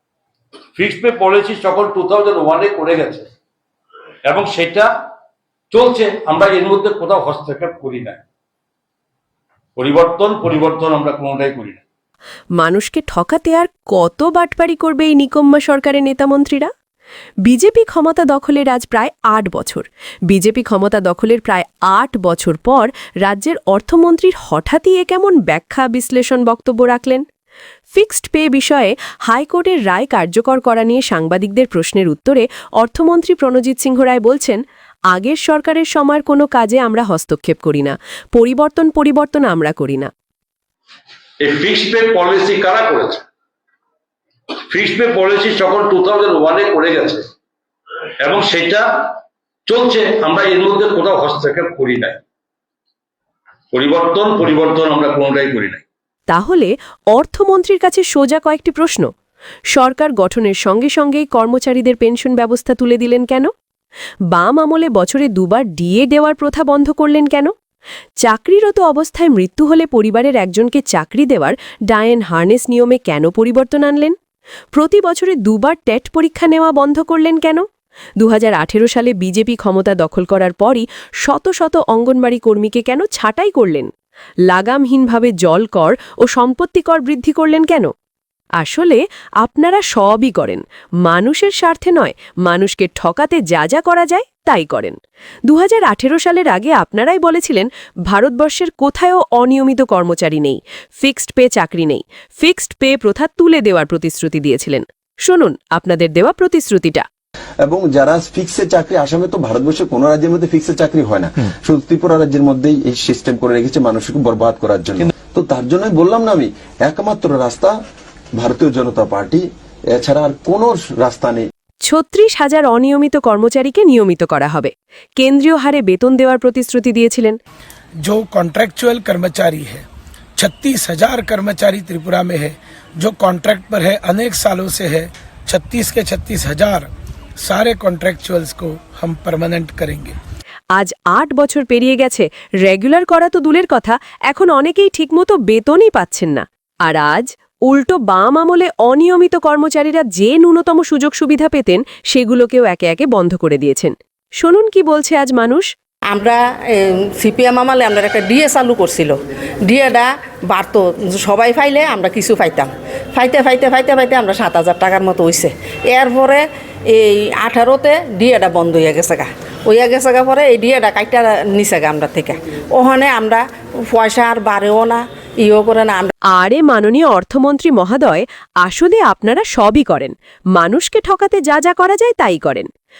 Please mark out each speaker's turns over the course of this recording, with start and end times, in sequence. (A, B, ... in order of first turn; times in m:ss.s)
0:00.8-0:03.3 A
0:04.2-0:04.9 A
0:05.7-0:08.2 A
0:09.8-0:11.8 A
0:12.6-0:16.7 B
0:17.4-0:27.2 B
0:27.9-0:34.6 B
0:35.1-0:40.1 B
0:41.4-0:43.2 A
0:44.7-0:47.2 A
0:48.2-0:49.1 A
0:49.7-0:52.2 A
0:53.7-0:55.8 A
0:56.3-0:59.1 B
0:59.7-1:03.5 B
1:04.3-1:07.5 B
1:08.2-1:14.2 B
1:14.7-1:17.6 B
1:18.2-1:23.9 B
1:24.5-1:27.9 B
1:28.6-1:47.0 B
1:47.6-1:57.7 C
1:58.4-2:01.4 C
2:01.8-2:07.4 B
2:08.0-2:09.8 D
2:10.4-2:16.9 D
2:17.4-2:20.2 D
2:20.7-2:35.7 B
2:36.1-2:36.4 E
2:37.2-2:39.1 E
2:39.7-2:56.1 E
2:56.3-3:02.7 B